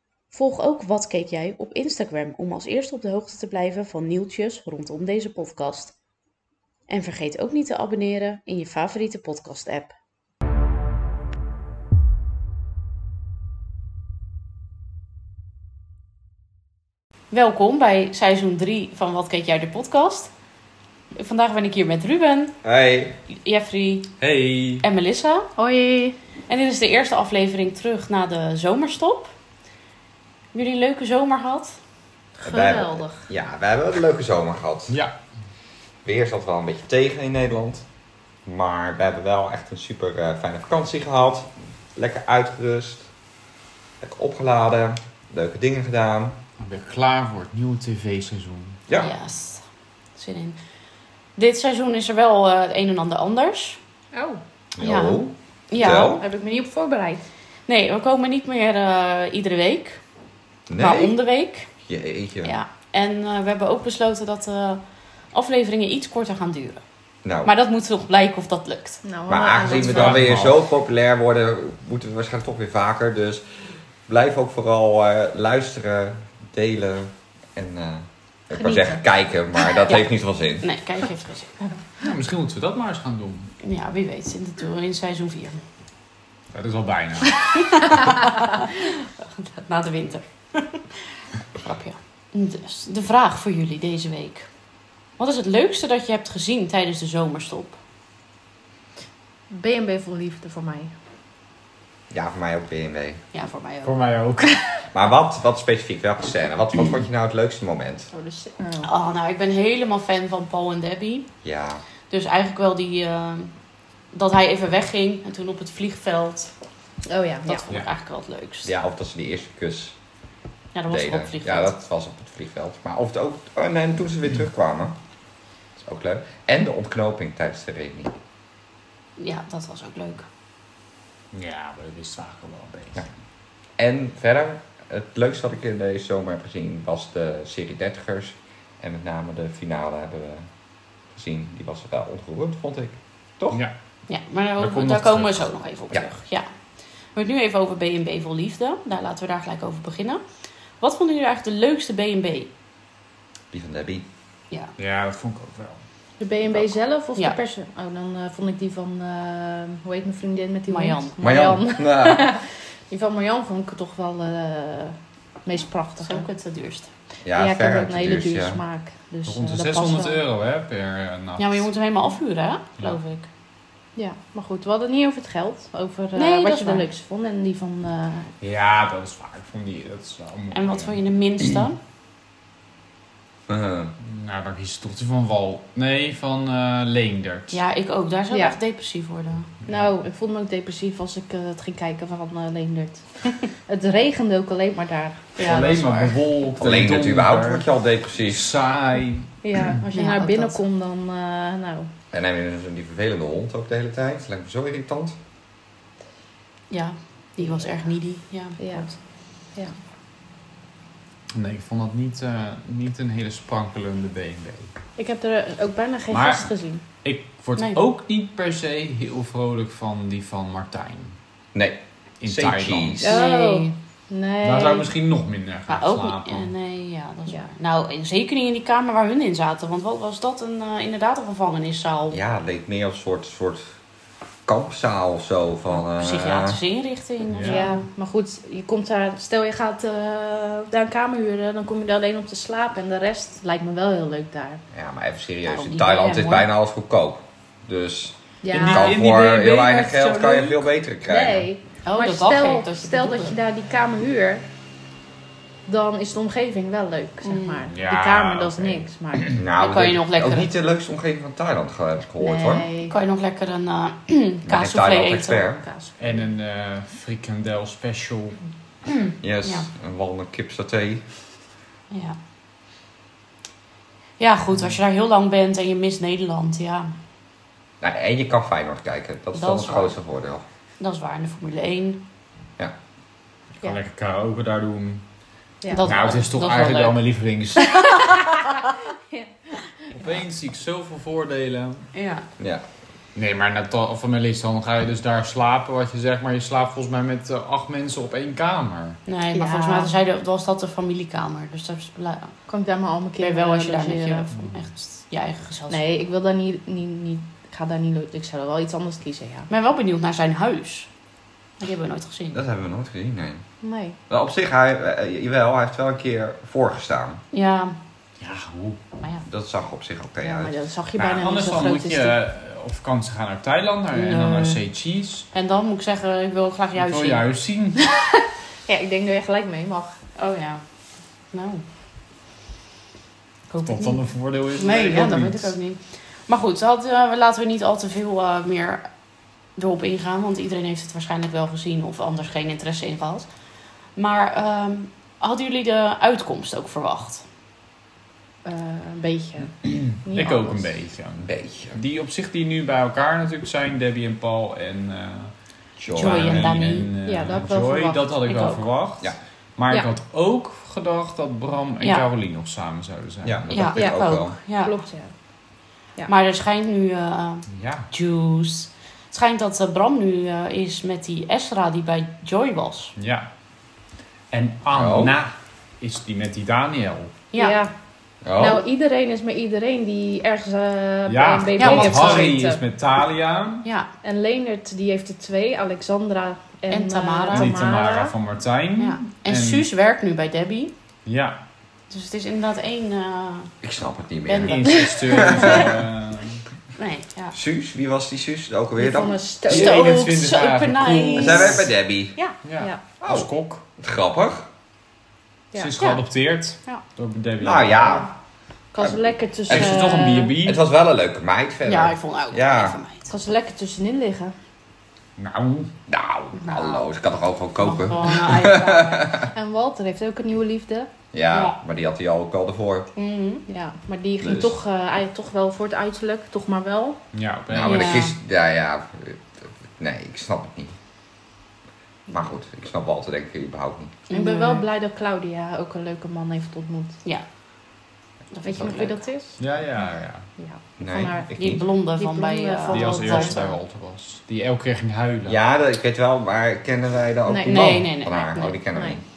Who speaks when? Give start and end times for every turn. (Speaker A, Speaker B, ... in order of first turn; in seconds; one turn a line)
Speaker A: 0.3-6.0
Speaker A: 6.9-10.0
Speaker A: 17.3-20.3
Speaker A: 21.1-22.6
Speaker B: 22.6-23.2
Speaker A: 23.3-24.1
Speaker C: 24.2-24.9
Speaker A: 24.8-25.5
Speaker D: 25.6-26.2
Speaker A: 26.5-29.3
Speaker A: 30.5-31.8
Speaker D: 32.4-33.2
Speaker B: 32.4-35.0
Speaker B: 36.0-37.9
Speaker B: 38.5-43.1
Speaker B: 44.0-46.4
Speaker C: 46.6-48.8
Speaker A: 48.9-50.6
Speaker A: 51.4-53.8
Speaker D: 54.1-54.4
Speaker B: 54.8-56.2
Speaker A: 54.8-56.2
Speaker D: 55.8-57.3
Speaker A: 57.7-60.0
Speaker B: 60.7-61.1
Speaker A: 60.8-61.7
Speaker B: 61.9-62.5
Speaker A: 62.4-66.8
Speaker B: 67.2-67.5
Speaker A: 67.4-69.0
Speaker D: 69.0-70.2
Speaker B: 69.3-80.7
Speaker C: 69.7-70.6
Speaker D: 78.5-79.0
Speaker A: 80.6-81.6
Speaker C: 82.0-83.5
Speaker A: 83.6-85.6
Speaker C: 86.5-87.8
Speaker A: 87.5-91.0
Speaker A: 91.6-94.5
Speaker A: 95.2-97.8
Speaker D: 99.5-100.9
Speaker B: 102.1-103.2
Speaker A: 103.3-104.0
Speaker C: 103.8-104.7
Speaker B: 104.9-108.1
Speaker D: 108.1-108.9
Speaker A: 108.8-111.3
Speaker B: 111.4-111.8
Speaker A: 112.1-113.5
Speaker A: 114.1-116.5
Speaker D: 117.1-117.6
Speaker A: 117.5-118.7
Speaker B: 118.7-120.0
Speaker A: 120.7-121.7
Speaker B: 120.9-125.0
Speaker B: 125.8-128.1
Speaker A: 129.2-130.3
Speaker C: 131.3-133.1
Speaker B: 133.8-140.5
Speaker B: 141.1-143.6
Speaker A: 144.1-146.5
Speaker C: 144.6-145.5
Speaker A: 147.1-150.2
Speaker A: 150.8-152.5
Speaker B: 153.5-154.1
Speaker C: 154.8-155.8
Speaker D: 156.2-166.3
Speaker A: 160.7-161.2
Speaker B: 161.2-162.3
Speaker A: 166.0-166.9
Speaker B: 167.2-168.6
Speaker D: 167.3-170.2
Speaker C: 169.2-171.7
Speaker A: 171.4-173.3
Speaker D: 174.0-178.3
Speaker A: 176.2-176.9
Speaker C: 178.4-181.0
Speaker A: 180.5-181.8
Speaker B: 183.5-183.9
Speaker C: 184.0-187.6
Speaker A: 187.5-189.5
Speaker D: 188.3-188.6
Speaker C: 189.6-189.9
Speaker D: 189.7-195.5
Speaker C: 195.4-197.7
Speaker B: 195.4-198.5
Speaker A: 195.4-195.7
Speaker C: 198.2-199.8
Speaker D: 199.4-201.9
Speaker A: 199.9-200.6
Speaker B: 202.1-205.2
Speaker A: 206.7-208.9
Speaker D: 208.6-209.8
Speaker C: 211.3-214.7
Speaker D: 215.0-216.8
Speaker C: 216.1-221.2
Speaker B: 221.5-223.2
Speaker C: 222.2-223.3
Speaker D: 223.0-224.9
Speaker A: 223.1-223.7
Speaker C: 224.4-226.5
Speaker A: 225.7-232.2
Speaker B: 232.1-233.7
Speaker B: 234.5-236.6
Speaker A: 235.9-237.8
Speaker C: 237.3-237.7
Speaker D: 237.5-244.6
Speaker B: 244.7-251.5
Speaker A: 245.5-246.5
Speaker D: 248.4-249.0
Speaker C: 248.5-250.7
Speaker D: 251.1-254.5
Speaker A: 251.8-253.4
Speaker D: 255.7-259.4
Speaker A: 257.2-257.6
Speaker C: 257.6-259.4
Speaker B: 259.4-262.7
Speaker A: 259.6-260.5
Speaker D: 262.2-262.9
Speaker A: 262.9-265.4
Speaker B: 264.5-265.6
Speaker D: 265.6-266.2
Speaker C: 266.0-268.4
Speaker A: 268.9-269.7
Speaker B: 269.2-271.0
Speaker A: 271.9-272.2
Speaker A: 274.2-276.9
Speaker B: 277.8-280.4
Speaker A: 279.4-280.0
Speaker A: 280.8-282.1
Speaker C: 283.6-285.0
Speaker A: 285.7-287.0
Speaker C: 285.8-288.1
Speaker D: 289.1-289.5
Speaker C: 289.9-291.9
Speaker A: 291.9-292.3
Speaker C: 293.1-299.0
Speaker A: 299.1-302.4
Speaker D: 299.3-299.9
Speaker D: 302.5-304.3
Speaker A: 303.2-305.8
Speaker C: 304.3-304.7
Speaker D: 305.7-309.5
Speaker A: 309.5-310.9
Speaker A: 311.6-312.4
Speaker B: 312.3-313.4
Speaker D: 313.6-314.0
Speaker B: 314.1-317.2
Speaker A: 317.3-317.8
Speaker C: 318.2-318.8
Speaker B: 319.3-320.5
Speaker D: 320.2-322.1
Speaker C: 321.0-325.3
Speaker A: 323.9-324.6
Speaker A: 325.3-327.2
Speaker C: 326.8-327.9
Speaker D: 327.9-330.0
Speaker A: 330.2-330.6
Speaker A: 331.3-331.6
Speaker A: 333.5-338.9
Speaker C: 333.7-335.5
Speaker A: 339.6-343.4
Speaker A: 343.9-347.2
Speaker D: 348.4-350.7
Speaker C: 349.7-355.3
Speaker B: 351.2-351.8
Speaker B: 355.8-356.5
Speaker C: 355.9-363.6
Speaker A: 355.9-356.9
Speaker D: 357.1-358.2
Speaker A: 358.2-358.6
Speaker B: 363.2-364.4
Speaker A: 363.5-364.8
Speaker D: 363.8-365.1
Speaker A: 366.1-372.9
Speaker C: 367.5-367.9
Speaker C: 373.0-373.3
Speaker C: 374.3-377.2
Speaker B: 374.7-375.2
Speaker A: 377.3-377.6
Speaker D: 377.4-377.7
Speaker B: 378.2-378.6
Speaker D: 378.4-382.6
Speaker C: 381.1-383.7
Speaker A: 381.6-382.3
Speaker A: 383.6-383.9
Speaker D: 384.0-388.1
Speaker A: 386.7-387.5
Speaker C: 387.3-389.7
Speaker A: 388.8-390.7
Speaker C: 391.1-391.4
Speaker A: 391.9-393.5
Speaker B: 393.6-395.7
Speaker A: 394.3-395.6
Speaker C: 394.4-396.4
Speaker A: 396.8-397.4
Speaker B: 397.3-399.2
Speaker D: 398.8-399.9
Speaker C: 399.5-401.7
Speaker A: 399.5-401.6
Speaker B: 401.2-402.1
Speaker C: 402.4-403.6
Speaker B: 403.0-404.5
Speaker D: 405.5-406.0
Speaker C: 405.6-408.1
Speaker B: 407.4-408.1
Speaker D: 408.7-410.3
Speaker B: 408.8-412.8
Speaker C: 409.5-410.6
Speaker A: 411.7-413.1
Speaker D: 413.1-414.3
Speaker C: 415.2-415.7
Speaker B: 415.9-419.3
Speaker A: 416.4-416.9
Speaker A: 417.6-418.8
Speaker D: 418.7-420.9
Speaker B: 421.1-422.9
Speaker A: 423.0-423.5
Speaker D: 423.5-427.0
Speaker B: 424.2-424.6
Speaker C: 427.1-428.0
Speaker B: 427.5-430.8
Speaker A: 427.6-428.1
Speaker B: 432.1-434.0
Speaker A: 434.1-434.6
Speaker D: 434.1-437.0
Speaker A: 438.3-439.0
Speaker D: 438.4-439.4
Speaker C: 439.4-440.3
Speaker D: 440.4-441.3
Speaker B: 440.8-441.6
Speaker A: 441.4-443.4
Speaker D: 442.0-443.6
Speaker C: 442.7-445.4
Speaker B: 445.3-449.0
Speaker D: 447.3-447.7
Speaker A: 447.4-448.6
Speaker D: 448.7-449.0